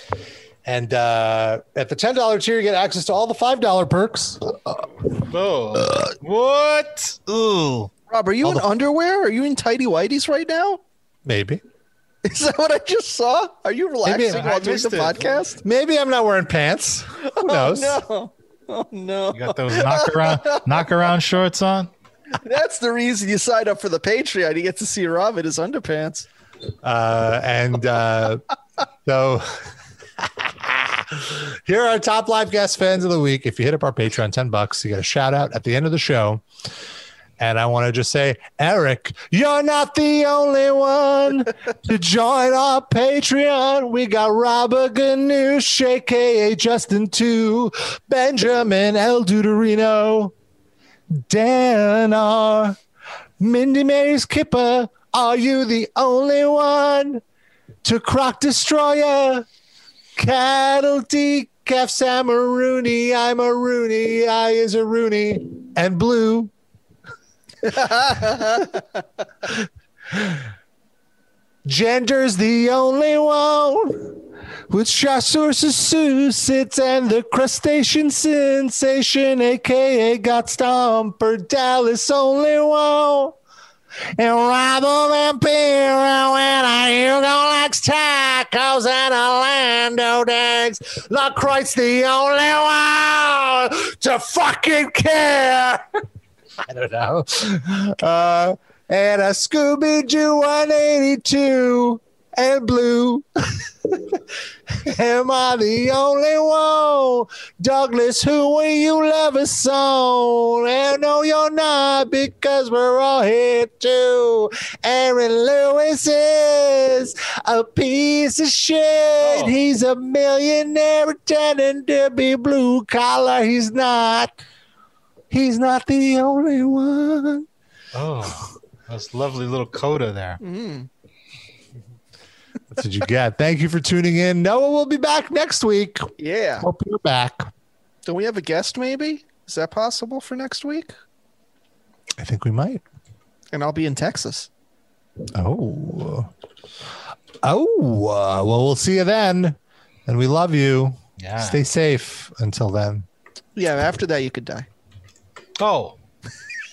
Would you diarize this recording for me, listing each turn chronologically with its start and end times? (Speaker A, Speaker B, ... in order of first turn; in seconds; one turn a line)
Speaker A: 0.6-5.0
Speaker B: 5.3-7.9
Speaker C: 8.1-10.8
Speaker A: 8.4-8.7
Speaker A: 11.2-11.6
Speaker C: 12.2-15.6
Speaker A: 14.0-14.5
Speaker B: 14.3-15.3
Speaker A: 15.6-18.0
Speaker C: 17.2-20.9
Speaker B: 19.3-21.9
Speaker C: 22.4-26.3
Speaker A: 26.8-28.4
Speaker A: 29.1-36.4
Speaker A: 37.4-50.3
Speaker A: 51.1-52.8
Speaker A: 53.4-57.2
Speaker A: 57.8-59.5
Speaker A: 60.1-66.5
Speaker C: 67.6-68.8
Speaker A: 69.5-70.4
Speaker A: 71.6-83.3
Speaker A: 84.2-95.8
Speaker A: 96.6-124.4
Speaker B: 119.2-119.6
Speaker A: 125.3-127.5
Speaker B: 127.9-130.4
Speaker C: 130.4-130.9
Speaker A: 132.7-137.5
Speaker C: 136.2-136.7
Speaker C: 138.1-140.9
Speaker A: 142.2-142.8
Speaker C: 143.5-144.5
Speaker A: 145.3-146.3
Speaker A: 147.4-153.1
Speaker B: 151.2-151.6
Speaker C: 153.6-154.7
Speaker B: 155.6-156.0